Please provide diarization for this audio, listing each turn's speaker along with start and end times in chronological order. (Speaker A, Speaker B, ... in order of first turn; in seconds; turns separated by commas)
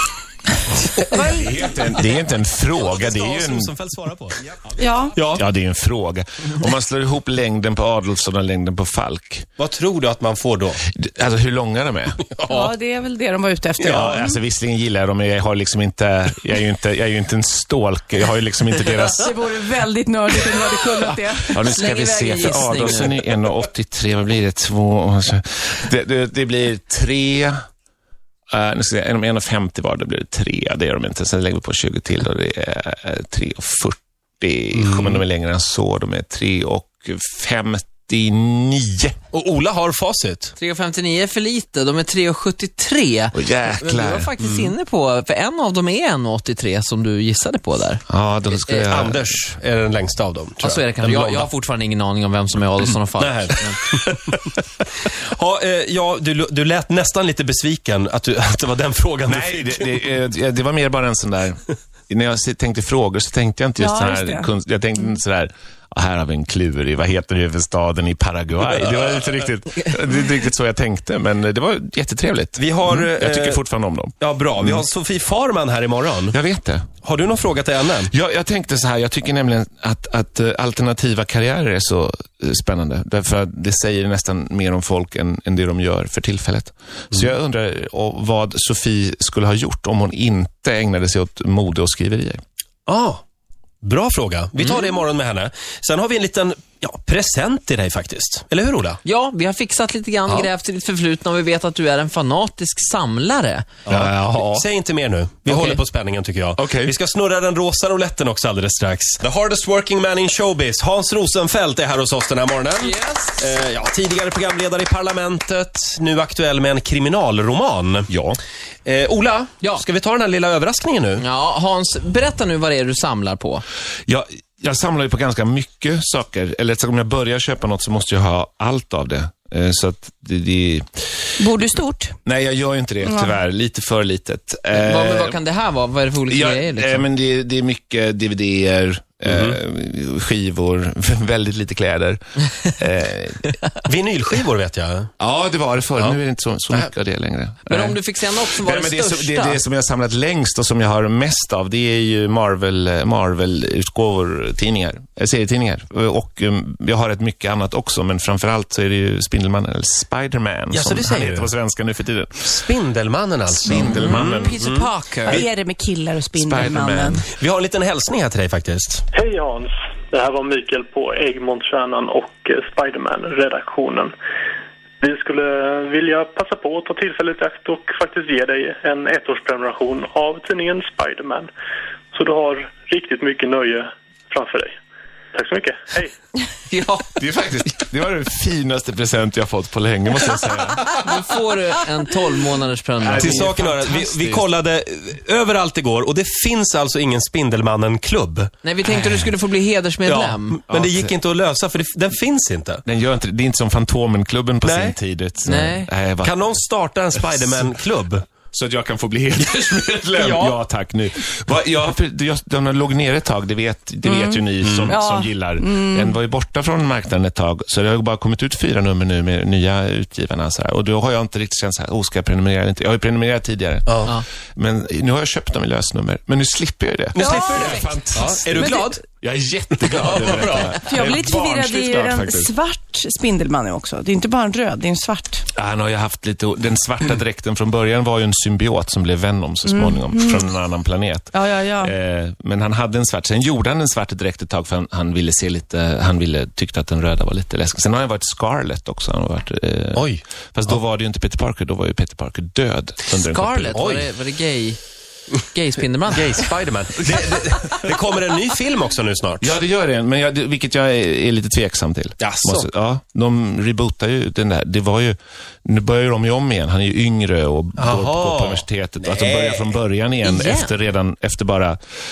Speaker A: 1.1-1.6, Speaker B: 1.1-3.7, Speaker C: 2.8-4.6, Speaker A: 4.8-5.2, Speaker C: 5.1-5.4, Speaker B: 5.3-9.5, Speaker C: 9.6-10.8, Speaker B: 10.9-12.3, Speaker A: 12.4-14.4, Speaker B: 13.8-19.3, Speaker A: 19.1-22.4, Speaker B: 21.5-27.6, Speaker D: 21.7-23.1, Speaker B: 28.5-39.1, Speaker C: 34.8-35.2, Speaker C: 39.3-40.5, Speaker D: 40.6-48.0, Speaker B: 43.3-44.3, Speaker C: 44.4-44.7, Speaker B: 48.1-49.3, Speaker C: 48.6-51.5, Speaker D: 50.6-53.8, Speaker C: 53.2-60.0, Speaker B: 59.3-74.8, Speaker A: 63.8-64.5, Speaker C: 72.5-73.6, Speaker C: 74.2-76.4, Speaker B: 76.3-76.9, Speaker C: 77.0-78.1, Speaker B: 78.1-92.4, Speaker C: 92.9-93.2, Speaker C: 93.8-99.0, Speaker D: 99.0-103.7, Speaker B: 103.8-104.6, Speaker C: 103.8-118.1, Speaker D: 105.5-105.7, Speaker B: 106.6-106.9, Speaker D: 112.8-113.5, Speaker B: 118.1-118.4, Speaker C: 118.8-121.2, Speaker D: 121.2-123.6, Speaker B: 124.1-131.0, Speaker A: 131.4-132.2, Speaker B: 132.2-135.4, Speaker A: 133.0-133.4, Speaker D: 134.7-137.1, Speaker B: 136.3-143.6, Speaker C: 139.2-139.6, Speaker C: 143.8-145.1, Speaker B: 145.2-162.5, Speaker D: 147.7-149.6, Speaker C: 160.7-161.5, Speaker C: 162.4-165.4, Speaker B: 163.5-164.6, Speaker D: 163.7-165.4, Speaker A: 165.3-167.2, Speaker B: 166.3-167.3, Speaker C: 167.4-169.0, Speaker E: 169.1-174.1, Speaker E: 175.0-181.5, Speaker E: 182.1-184.7, Speaker E: 185.3-186.1, Speaker B: 186.7-190.9, Speaker D: 191.0-193.6, Speaker B: 193.0-194.4, Speaker C: 193.1-199.2, Speaker D: 198.6-200.6, Speaker C: 200.0-202.8, Speaker B: 200.7-201.1, Speaker B: 202.8-206.6, Speaker C: 204.6-204.9, Speaker D: 205.4-205.9, Speaker C: 206.2-208.2, Speaker B: 207.2-207.7, Speaker B: 208.5-232.5, Speaker C: 210.2-210.6, Speaker A: 214.0-216.1, Speaker C: 214.6-214.9, Speaker C: 223.9-224.1, Speaker C: 227.1-229.0, Speaker A: 227.2-227.9, Speaker C: 229.8-230.8, Speaker A: 230.8-235.4, Speaker B: 235.5-253.8, Speaker A: 239.7-240.4, Speaker A: 241.3-241.9, Speaker C: 249.9-250.2, Speaker D: 253.1-254.8, Speaker C: 253.7-254.1, Speaker D: 255.5-256.4, Speaker C: 256.1-259.6, Speaker B: 259.4-271.8, Speaker C: 262.2-262.7, Speaker C: 267.8-269.8, Speaker D: 270.2-270.7